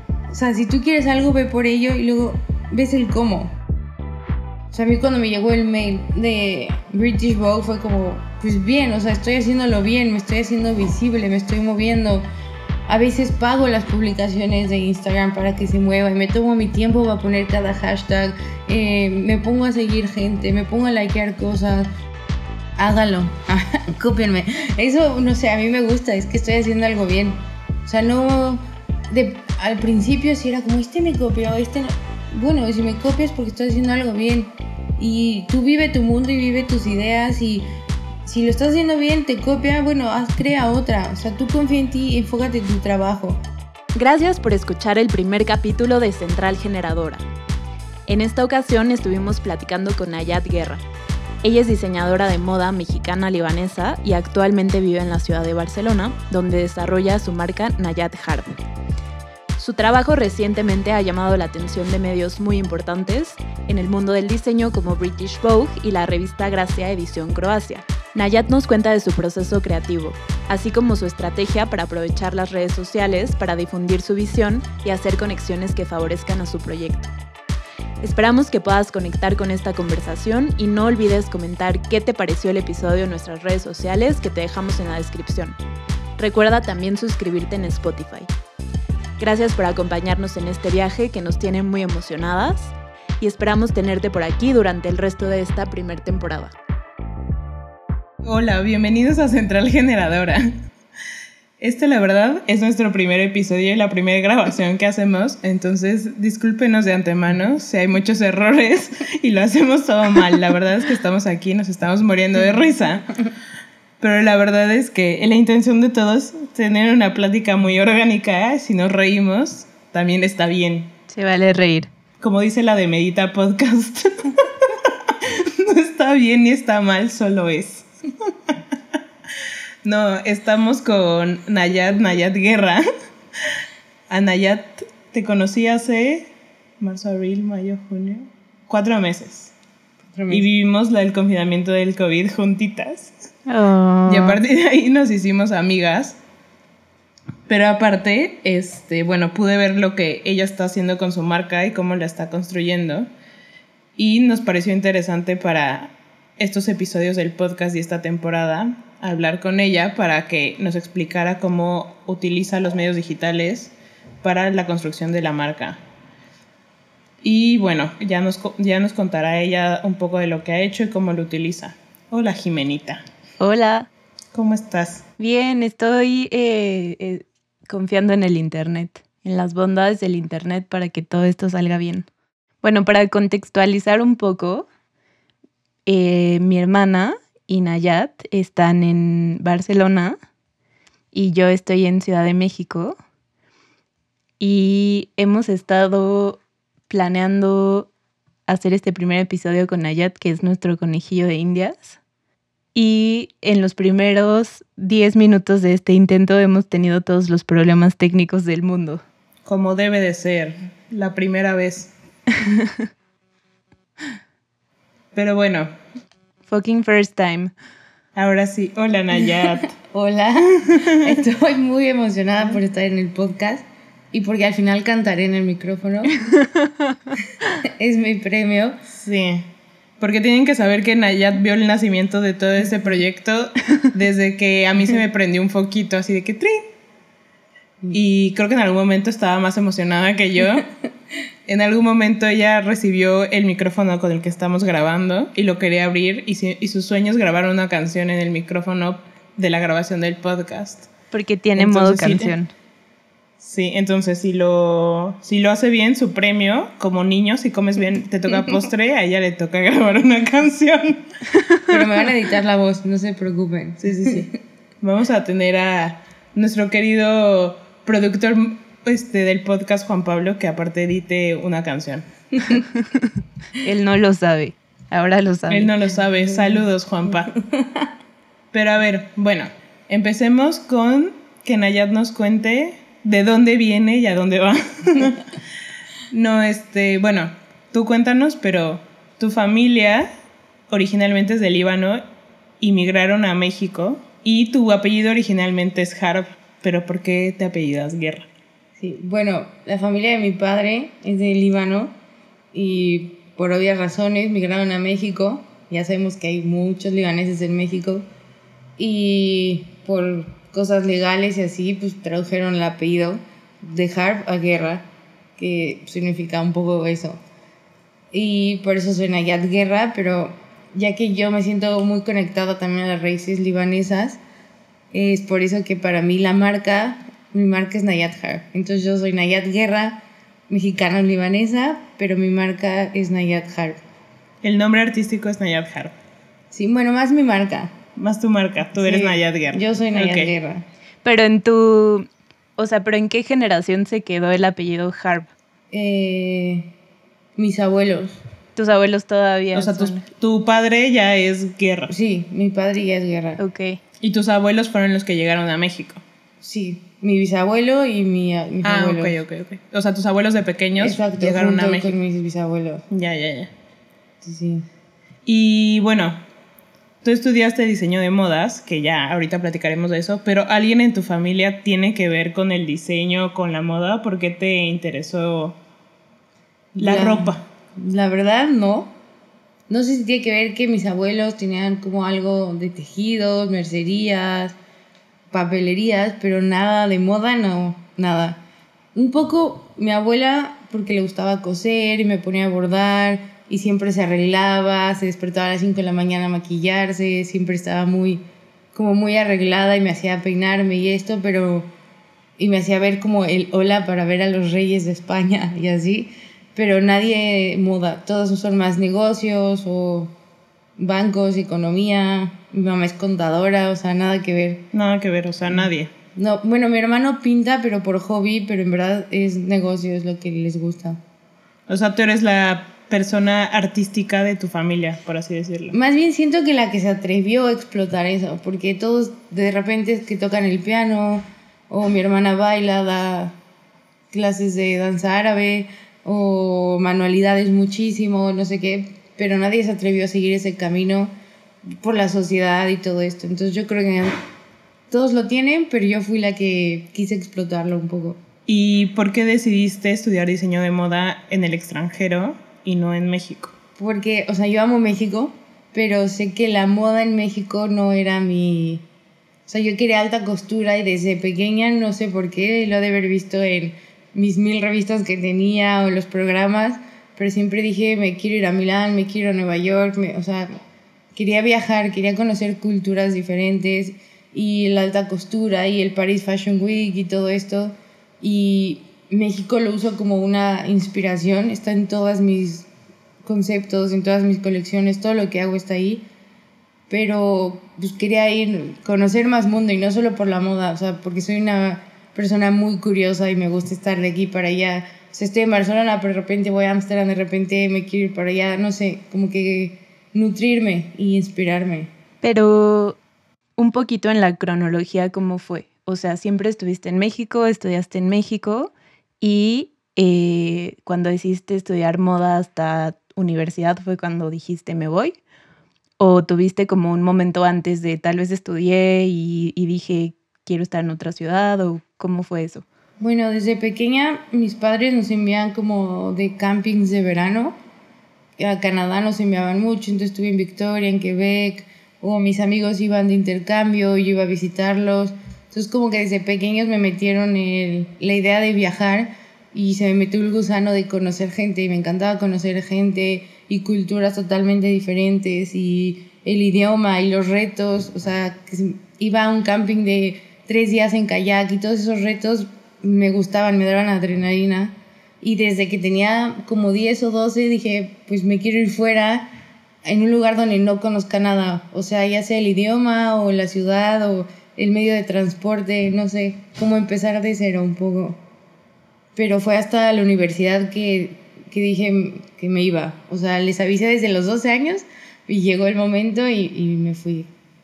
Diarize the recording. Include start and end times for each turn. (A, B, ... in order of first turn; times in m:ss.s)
0:00.3-0:03.5 A
0:04.7-0:12.2 A
0:12.9-0:21.9 A
0:22.8-0:37.6 A
0:38.2-0:43.4 A
0:43.9-0:47.2 B
0:48.1-0:50.8 B
0:51.4-0:58.6 B
0:59.6-1:17.1 B
1:18.0-1:25.6 B
1:26.2-1:28.3 B
1:29.2-1:36.5 B
1:38.2-1:40.5 C
1:41.6-1:53.1 C
1:54.0-2:00.9 C
2:01.1-2:01.9 B
2:02.2-2:08.5 C
2:09.8-2:12.8 C
2:14.1-2:16.3 C
2:16.8-2:19.5 C
2:20.1-2:20.4 A
2:20.3-2:23.1 C
2:23.5-2:24.4 B
2:24.1-2:26.2 C
2:27.5-2:33.1 C
2:34.0-2:45.8 C
2:47.2-2:53.0 C
2:53.4-2:53.9 B
2:54.3-2:55.0 C
2:55.2-3:02.1 B
3:02.6-3:04.7 B
3:05.8-3:10.2 B
3:11.1-3:13.0 B
3:14.4-3:17.9 B
3:18.5-3:22.0 B
3:22.7-3:29.0 B
3:29.4-3:31.9 C
3:32.4-3:32.9 B
3:35.1-3:35.7 C
3:36.4-3:37.5 B
3:38.2-3:39.7 C
3:39.7-3:46.2 A
3:46.3-3:47.0 B
3:47.6-3:48.8 A
3:48.9-3:49.4 C
3:50.0-3:56.6 C
3:57.9-4:00.7 C
4:01.4-4:10.9 C
4:11.1-4:12.5 B
4:11.6-4:12.3 C
4:13.4-4:21.0 C
4:21.7-4:24.3 A
4:23.8-4:24.3 C
4:24.8-4:32.0 C
4:32.7-4:35.7 B
4:35.5-4:37.3 C
4:38.5-4:45.2 C
4:46.1-4:50.1 C
4:50.7-4:52.0 C
4:52.6-4:58.3 C
4:58.8-5:01.9 A
5:02.5-5:08.0 A
5:08.8-5:14.8 A
5:15.4-5:17.2 A
5:18.1-5:24.2 A
5:24.9-5:33.8 A
5:34.4-5:35.9 C
5:36.5-5:37.7 A
5:38.0-5:40.3 C
5:38.8-5:40.6 A
5:41.0-5:45.3 B
5:45.7-5:46.7 A
5:47.4-5:48.2 A
5:48.6-5:50.0 B
5:49.5-5:51.9 C
5:51.9-5:53.4 A
5:53.4-5:53.8 B
5:54.0-5:56.0 C
5:56.4-5:59.1 A
5:58.6-6:01.9 C
6:00.8-6:02.8 A
6:02.9-6:03.5 C
6:04.2-6:04.6 A
6:05.2-6:06.2 C
6:07.0-6:15.6 C
6:16.8-6:18.9 A
6:16.8-6:17.4 C
6:19.7-6:24.6 A
6:25.3-6:28.4 A
6:28.9-6:38.2 A
6:38.7-6:41.7 A
6:42.4-6:50.1 A
6:50.8-6:54.6 A
6:54.7-6:55.9 C
6:56.1-7:01.0 A
7:01.7-7:05.7 C
7:05.7-7:13.4 A
7:14.1-7:21.1 A
7:21.8-7:24.2 A
7:24.9-7:28.2 A
7:28.5-7:33.5 C
7:33.8-7:38.8 A
7:39.5-7:50.6 A
7:51.1-8:02.7 A
8:03.2-8:06.0 A
8:06.9-8:21.9 A
8:22.2-8:23.0 B
8:23.6-8:35.2 B
8:36.0-8:42.6 B
8:43.0-8:47.6 A
8:48.4-9:19.3 A
9:19.8-9:28.2 A
9:29.2-9:37.3 A